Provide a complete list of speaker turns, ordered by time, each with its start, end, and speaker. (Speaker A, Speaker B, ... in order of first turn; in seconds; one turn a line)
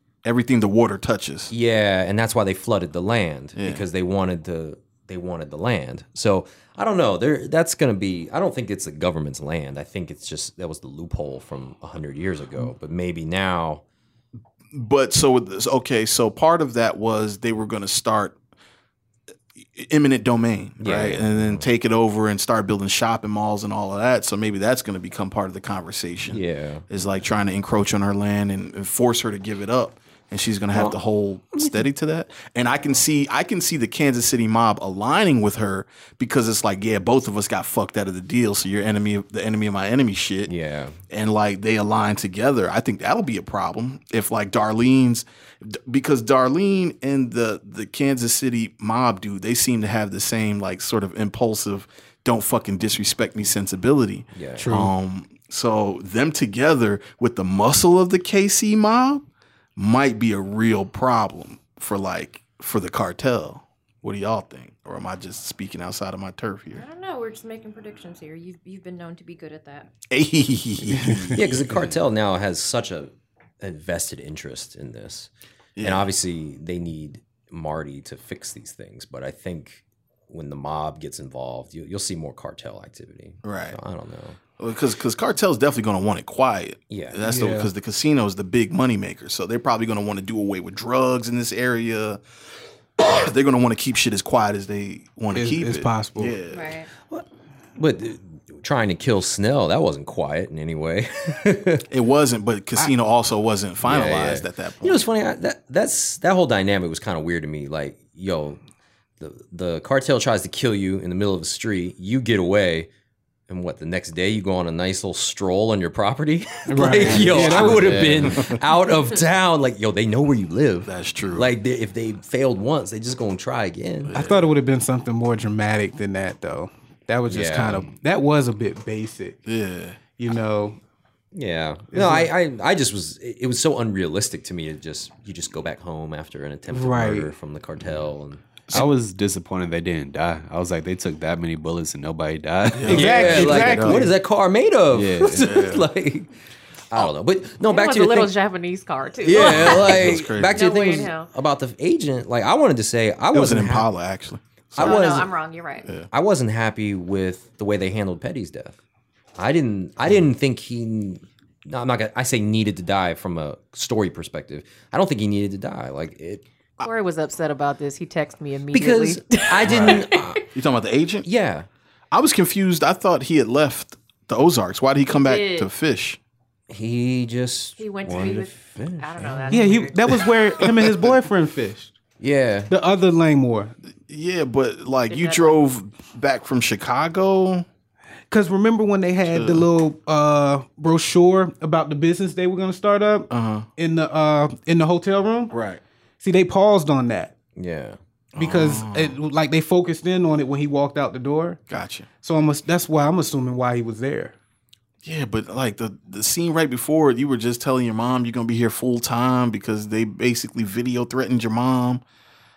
Speaker A: 0.2-1.5
Speaker B: 1.5-13.8
Speaker A: 3.5-3.9
Speaker A: 14.7-18.4
Speaker A: 19.6-40.5
Speaker B: 20.8-21.6
Speaker B: 26.3-26.8
Speaker B: 30.7-31.0
Speaker B: 31.5-31.8
Speaker B: 40.5-41.0
Speaker A: 41.1-59.2
Speaker B: 54.3-54.7
Speaker C: 54.6-54.9
Speaker A: 59.8-66.8
Speaker D: 66.7-69.9
Speaker A: 70.1-71.9
Speaker C: 70.9-71.4
Speaker B: 71.3-75.3
Speaker A: 75.8-76.1
Speaker B: 75.8-84.4
Speaker A: 83.4-83.8
Speaker A: 84.6-92.2
Speaker B: 86.9-87.2
Speaker C: 87.2-87.7
Speaker A: 93.0-96.7
Speaker C: 95.3-96.4
Speaker D: 96.5-96.9
Speaker B: 97.8-101.9
Speaker A: 101.9-105.0
Speaker B: 103.8-108.6
Speaker B: 109.2-112.9
Speaker B: 113.5-124.2
Speaker C: 116.7-118.2
Speaker E: 117.0-118.4
Speaker A: 117.2-117.7
Speaker A: 118.3-118.5
Speaker A: 120.8-121.5
Speaker A: 124.1-124.5
Speaker C: 124.1-129.4
Speaker B: 127.2-127.9
Speaker A: 129.4-130.0
Speaker C: 130.2-130.8
Speaker B: 131.3-138.6
Speaker C: 131.9-132.3
Speaker C: 136.7-137.3
Speaker E: 138.7-143.7
Speaker A: 142.7-144.1
Speaker C: 142.9-144.1
Speaker B: 142.9-146.3
Speaker E: 144.9-145.5
Speaker A: 145.3-145.9
Speaker B: 146.9-148.3
Speaker D: 147.6-151.3
Speaker B: 149.2-153.9
Speaker A: 149.3-150.6
Speaker A: 153.3-155.2
Speaker B: 154.7-155.3
Speaker D: 154.8-155.9
Speaker B: 156.1-158.8
Speaker B: 159.3-166.4
Speaker D: 166.8-170.4
Speaker B: 168.7-170.4
Speaker A: 169.6-171.3
Speaker B: 171.2-171.7
Speaker A: 172.1-176.2
Speaker D: 175.1-175.7
Speaker B: 176.7-179.8
Speaker D: 177.8-180.3
Speaker C: 179.5-182.0
Speaker B: 182.2-182.7
Speaker C: 182.7-183.7
Speaker A: 184.1-187.7
Speaker D: 185.1-185.6
Speaker C: 188.3-195.5
Speaker A: 189.2-189.7
Speaker A: 193.3-193.7
Speaker A: 195.5-195.8
Speaker C: 196.2-197.3
Speaker B: 197.6-198.0
Speaker A: 198.3-199.2
Speaker C: 198.4-201.6
Speaker A: 201.7-202.1
Speaker C: 202.2-204.3
Speaker A: 205.0-212.0